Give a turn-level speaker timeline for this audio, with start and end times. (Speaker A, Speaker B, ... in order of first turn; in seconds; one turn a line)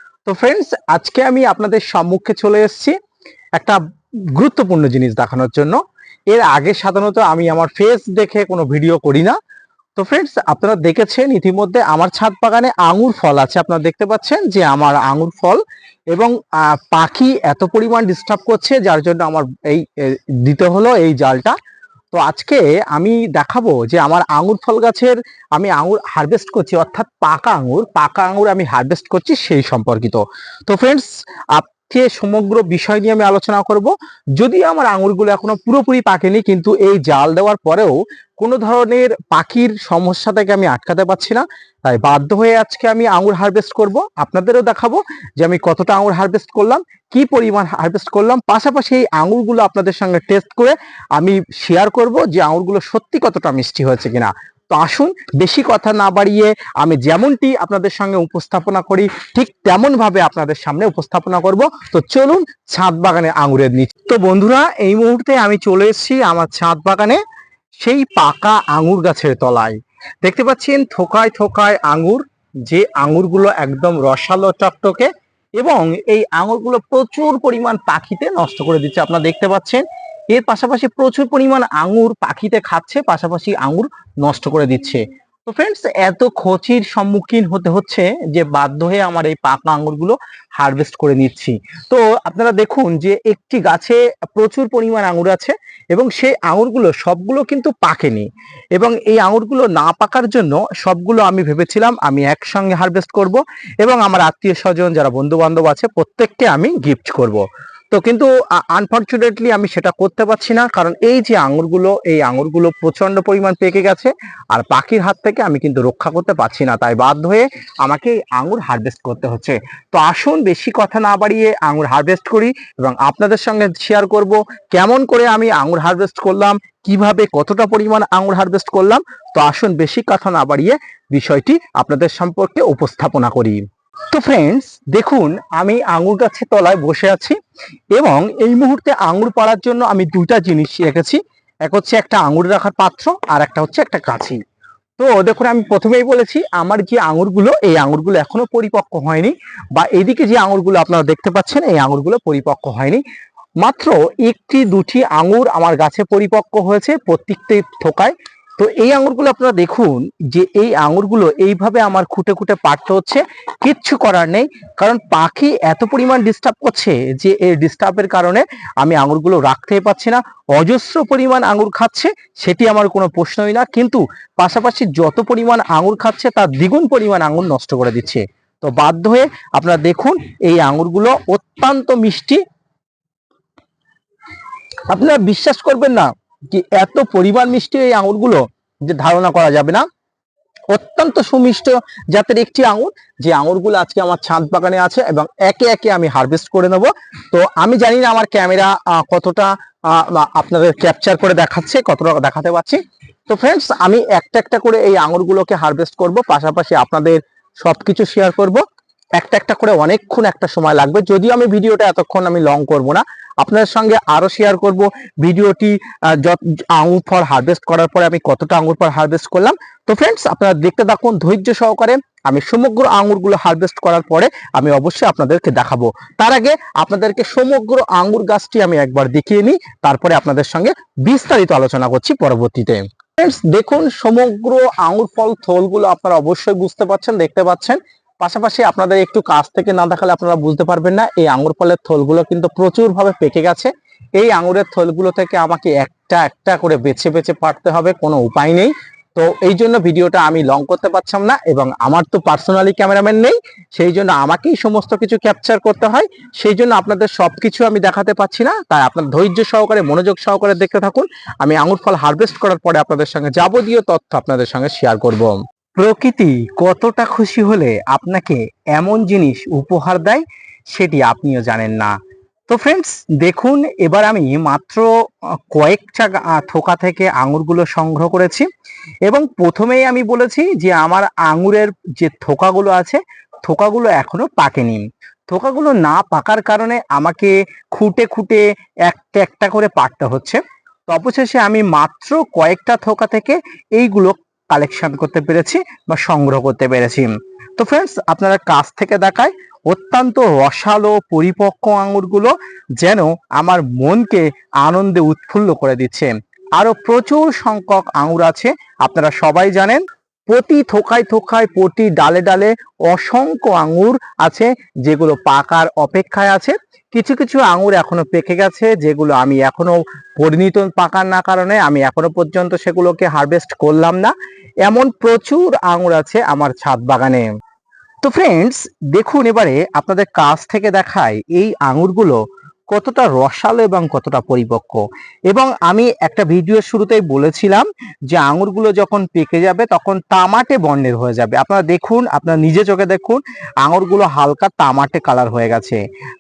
Speaker A: 0.3-3.0
Speaker A: 4.3-9.4
Speaker A: 10.0-15.6
Speaker A: 16.1-21.6
Speaker A: 22.1-67.2
Speaker A: 67.8-133.6
Speaker A: 134.1-137.4
Speaker A: 137.9-144.4
Speaker A: 145.0-153.0
Speaker A: 153.6-182.4
Speaker A: 184.9-189.8
Speaker A: 190.7-208.6
Speaker A: 209.2-271.9
Speaker A: 272.5-274.9
Speaker A: 275.5-278.5
Speaker A: 279.1-327.2
Speaker A: 328.0-332.2
Speaker A: 332.7-345.8